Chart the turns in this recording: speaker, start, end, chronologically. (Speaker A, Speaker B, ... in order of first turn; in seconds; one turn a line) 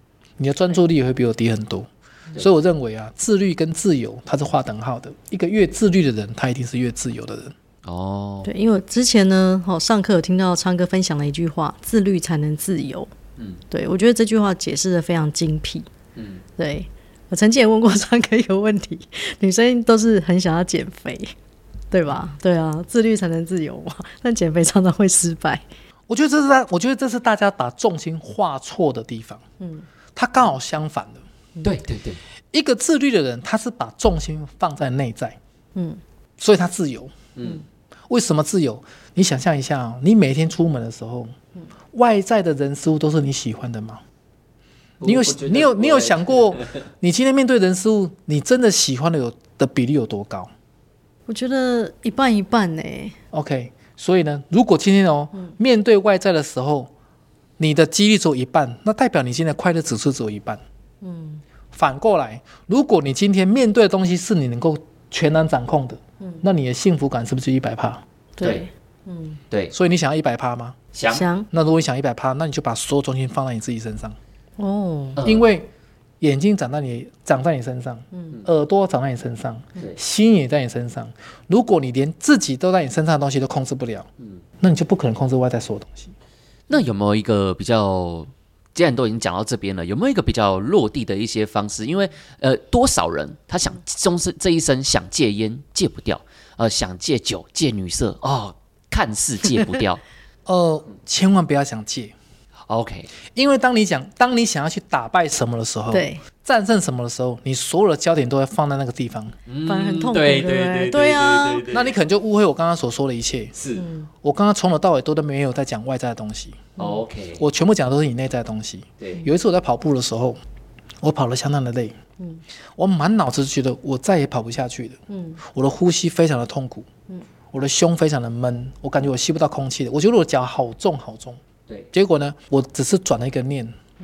Speaker A: 0.4-7.5
Speaker B: 7.8-8.5
Speaker C: 8.4-13.1
Speaker C: 13.7-15.9
Speaker B: 16.2-16.4
Speaker C: 16.6-21.3
Speaker C: 21.9-25.6
Speaker A: 26.1-29.4
Speaker C: 29.6-29.9
Speaker A: 30.1-31.2
Speaker B: 31.6-32.2
Speaker A: 32.5-35.4
Speaker C: 35.8-36.0
Speaker A: 36.4-37.2
Speaker B: 37.4-37.6
Speaker A: 38.1-41.3
Speaker A: 41.9-44.0
Speaker B: 45.0-46.8
Speaker A: 45.0-50.5
Speaker C: 51.3-53.1
Speaker A: 53.3-56.9
Speaker A: 57.6-60.6
Speaker C: 61.0-61.4
Speaker A: 61.7-68.0
Speaker C: 68.4-69.4
Speaker B: 68.4-68.7
Speaker A: 69.7-70.8
Speaker B: 70.9-71.2
Speaker C: 71.1-71.5
Speaker A: 71.5-74.2
Speaker C: 74.6-75.2
Speaker B: 75.2-75.4
Speaker A: 75.2-75.7
Speaker A: 76.2-84.1
Speaker A: 84.6-86.1
Speaker B: 86.7-100.0
Speaker A: 100.5-102.1
Speaker B: 102.7-103.1
Speaker A: 103.3-109.4
Speaker C: 105.9-106.2
Speaker B: 109.5-112.0
Speaker C: 109.6-111.6
Speaker A: 111.7-113.5
Speaker B: 113.6-113.8
Speaker C: 113.8-114.1
Speaker A: 114.2-116.7
Speaker B: 116.8-117.4
Speaker A: 117.4-120.4
Speaker B: 119.0-119.2
Speaker A: 121.0-122.0
Speaker A: 122.8-126.9
Speaker C: 125.1-125.4
Speaker A: 127.5-131.4
Speaker A: 131.9-133.8